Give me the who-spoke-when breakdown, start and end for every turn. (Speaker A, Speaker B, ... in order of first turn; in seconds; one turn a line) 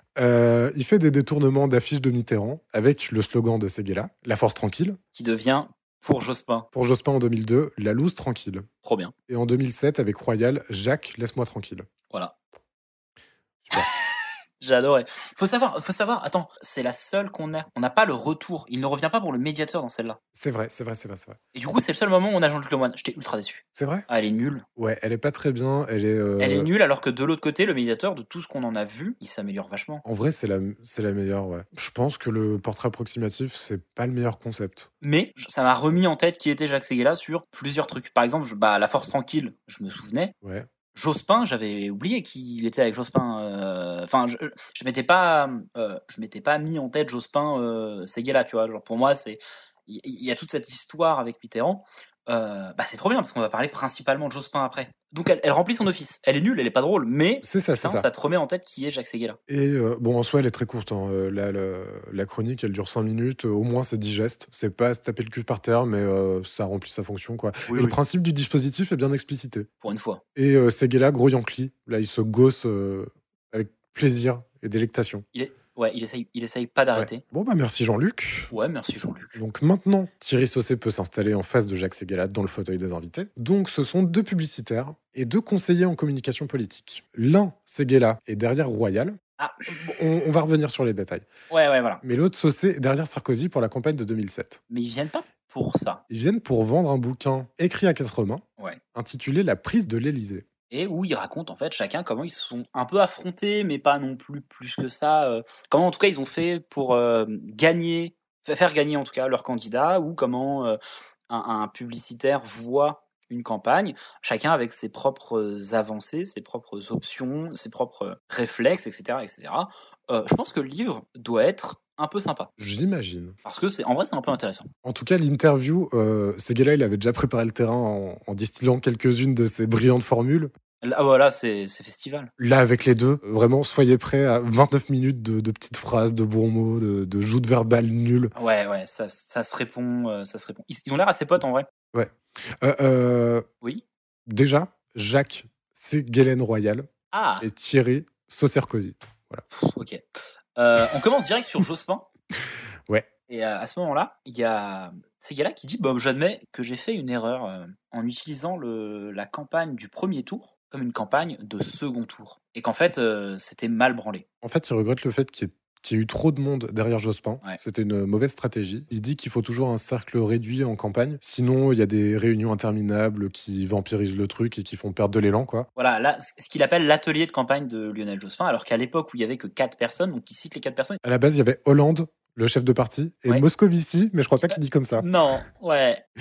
Speaker A: 0.2-5.0
Speaker B: 5.1-6.7
Speaker A: 6.7-8.7
Speaker B: 8.8-9.1
Speaker A: 9.3-11.9
Speaker B: 14.6-20.2
Speaker A: 20.3-21.4
Speaker B: 21.5-24.6
Speaker A: 23.8-24.1
Speaker A: 24.8-26.7
Speaker B: 26.4-30.0
Speaker A: 30.0-34.9
Speaker B: 35.0-40.3
Speaker A: 40.4-40.7
Speaker B: 40.9-59.4
Speaker A: 57.4-58.1
Speaker A: 59.5-69.7
Speaker B: 67.7-68.0
Speaker B: 69.8-70.2
Speaker A: 70.4-75.2
Speaker B: 75.3-77.2
Speaker A: 77.0-78.5
Speaker B: 78.5-79.4
Speaker A: 79.4-89.2
Speaker B: 89.4-89.7
Speaker A: 89.8-91.3
Speaker B: 91.5-92.0
Speaker A: 92.0-94.6
Speaker B: 94.7-96.0
Speaker A: 96.1-98.4
Speaker A: 99.0-100.5
Speaker B: 100.7-110.8
Speaker B: 111.3-122.5
Speaker A: 122.6-123.4
Speaker B: 123.5-124.7
Speaker A: 124.8-130.5
Speaker B: 130.8-132.3
Speaker A: 132.4-138.3
Speaker B: 138.3-141.7
Speaker A: 141.9-143.4
Speaker A: 144.3-146.9
Speaker B: 147.1-147.5
Speaker A: 147.4-149.4
Speaker B: 149.5-150.0
Speaker B: 150.6-152.1
Speaker B: 153.3-164.2
Speaker A: 164.4-175.7
Speaker B: 175.8-181.0
Speaker A: 181.0-185.1
Speaker B: 184.5-186.0